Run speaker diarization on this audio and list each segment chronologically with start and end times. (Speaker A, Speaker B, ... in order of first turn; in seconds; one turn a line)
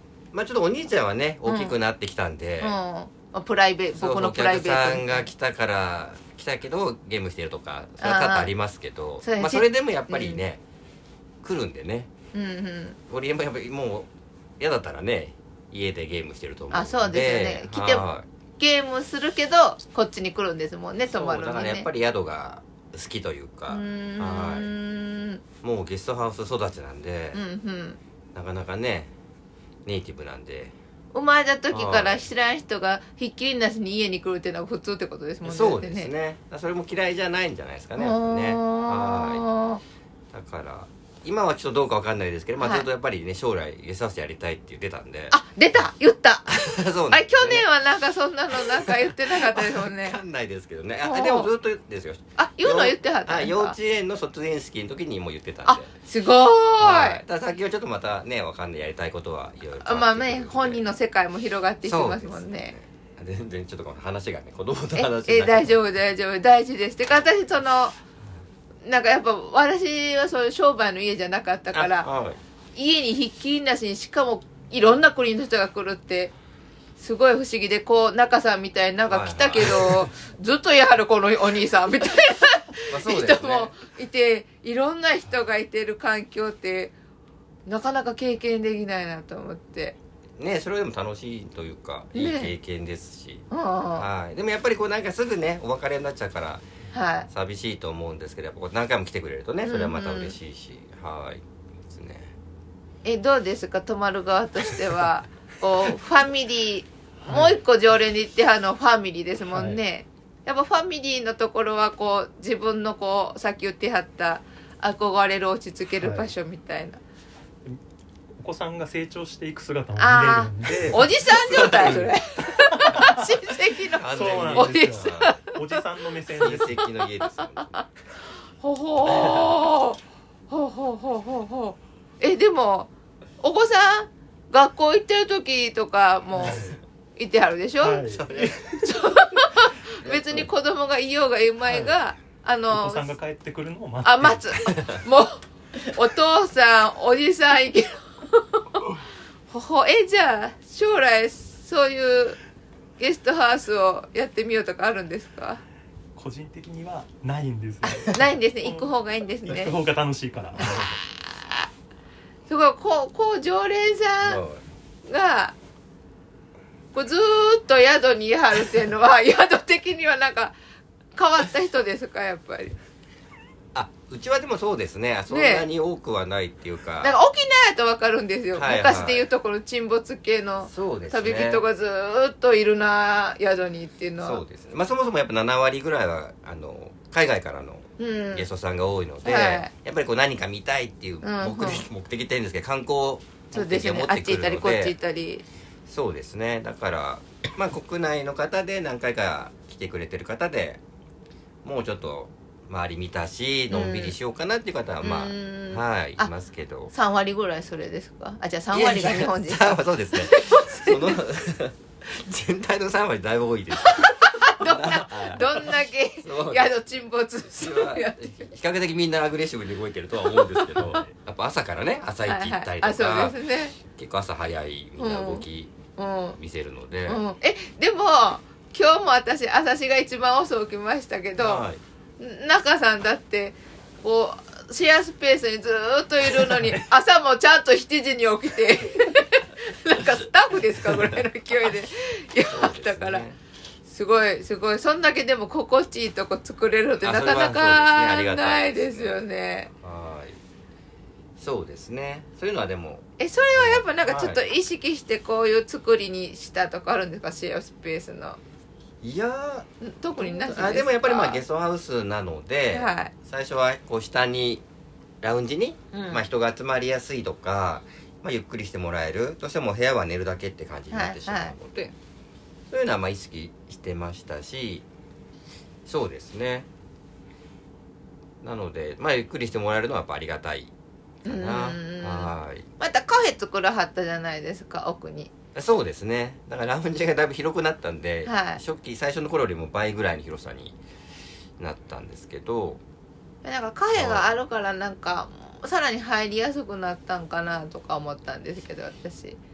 Speaker A: 0.3-2.8
Speaker B: 1.4-1.8
Speaker B: 2.6-5.3
Speaker A: 4.0-10.6
Speaker B: 8.0-8.5
Speaker B: 9.2-10.4
Speaker A: 11.4-12.1
Speaker B: 12.3-12.9
Speaker A: 13.1-14.1
Speaker A: 14.6-18.2
Speaker B: 16.7-18.1
Speaker B: 18.6-21.9
Speaker A: 21.1-24.7
Speaker B: 23.7-25.4
Speaker A: 25.6-27.4
Speaker B: 27.3-28.0
Speaker A: 28.3-29.1
Speaker A: 29.8-30.7
Speaker B: 31.1-36.1
Speaker A: 31.7-32.2
Speaker A: 35.4-39.4
Speaker B: 38.0-39.8
Speaker A: 40.3-45.4
Speaker B: 42.6-42.9
Speaker B: 45.3-46.5
Speaker A: 46.5-47.6
Speaker B: 47.1-50.2
Speaker A: 48.6-55.9
Speaker B: 51.0-51.5
Speaker B: 52.4-53.7
Speaker B: 55.6-57.2
Speaker A: 56.8-60.8
Speaker B: 59.8-62.7
Speaker A: 61.9-65.7
Speaker B: 64.9-68.0
Speaker B: 68.8-72.1
Speaker A: 71.7-72.4
Speaker B: 72.7-76.3
Speaker B: 77.0-86.9
Speaker A: 79.1-80.1
Speaker A: 82.9-83.7
Speaker B: 87.7-89.9
Speaker A: 90.4-93.4
Speaker B: 92.1-92.5
Speaker B: 93.5-94.0
Speaker A: 94.0-96.6
Speaker B: 96.9-97.3
Speaker A: 97.3-102.3
Speaker B: 99.6-100.3
Speaker B: 103.0-117.0
Speaker C: 107.2-107.6
Speaker C: 109.5-109.8
Speaker C: 116.0-116.3
Speaker C: 118.4-121.1
Speaker B: 120.0-125.6
Speaker A: 121.3-122.1
Speaker C: 122.7-123.2
Speaker A: 124.0-125.3
Speaker C: 124.1-126.8
Speaker B: 126.4-127.8
Speaker A: 126.4-127.8
Speaker B: 128.6-130.0
Speaker B: 130.5-138.1
Speaker C: 136.4-136.7
Speaker C: 137.8-138.9
Speaker A: 138.1-138.6
Speaker B: 138.8-143.1
Speaker A: 140.0-140.5
Speaker C: 141.7-141.9
Speaker C: 142.7-144.7
Speaker B: 144.0-148.8
Speaker B: 149.5-152.4
Speaker B: 153.0-155.6
Speaker C: 156.2-158.9
Speaker B: 158.1-159.8
Speaker C: 159.4-160.8
Speaker B: 160.6-161.7
Speaker A: 160.6-160.9
Speaker B: 162.5-164.4
Speaker A: 164.2-164.6
Speaker B: 165.1-165.5
Speaker B: 166.9-170.5
Speaker B: 171.1-172.7
Speaker A: 173.7-177.1
Speaker B: 175.3-175.7
Speaker B: 177.0-184.4
Speaker A: 178.5-179.2
Speaker A: 180.7-181.6
Speaker A: 184.2-194.9
Speaker B: 188.0-188.5
Speaker B: 189.2-189.7
Speaker B: 191.2-191.8
Speaker B: 193.5-195.4
Speaker A: 195.9-200.8
Speaker A: 201.6-206.9
Speaker B: 203.7-204.2
Speaker B: 205.0-206.3
Speaker B: 206.9-211.2
Speaker A: 208.7-214.0
Speaker B: 213.8-218.5
Speaker A: 214.6-216.7
Speaker A: 217.5-223.3
Speaker B: 220.3-221.0
Speaker B: 222.2-223.8
Speaker A: 223.9-225.7
Speaker B: 225.0-225.4
Speaker B: 225.9-226.4
Speaker A: 226.4-227.2
Speaker B: 227.1-231.6
Speaker A: 231.4-231.8
Speaker B: 232.2-243.2
Speaker A: 240.0-240.3
Speaker A: 240.8-241.2
Speaker A: 242.5-243.4
Speaker B: 243.8-249.7
Speaker A: 247.0-249.2
Speaker A: 249.8-250.4
Speaker A: 251.4-254.4
Speaker B: 253.2-258.4
Speaker A: 259.0-264.6
Speaker B: 259.8-261.4
Speaker B: 262.7-263.1
Speaker A: 265.2-271.9
Speaker B: 265.9-266.2
Speaker B: 270.9-271.6
Speaker A: 272.7-274.8
Speaker A: 275.9-276.7
Speaker A: 278.4-280.7
Speaker B: 281.2-285.3
Speaker A: 281.2-282.6
Speaker A: 285.5-290.8
Speaker B: 288.2-288.6
Speaker A: 291.6-292.8
Speaker B: 293.4-299.4
Speaker A: 293.9-294.3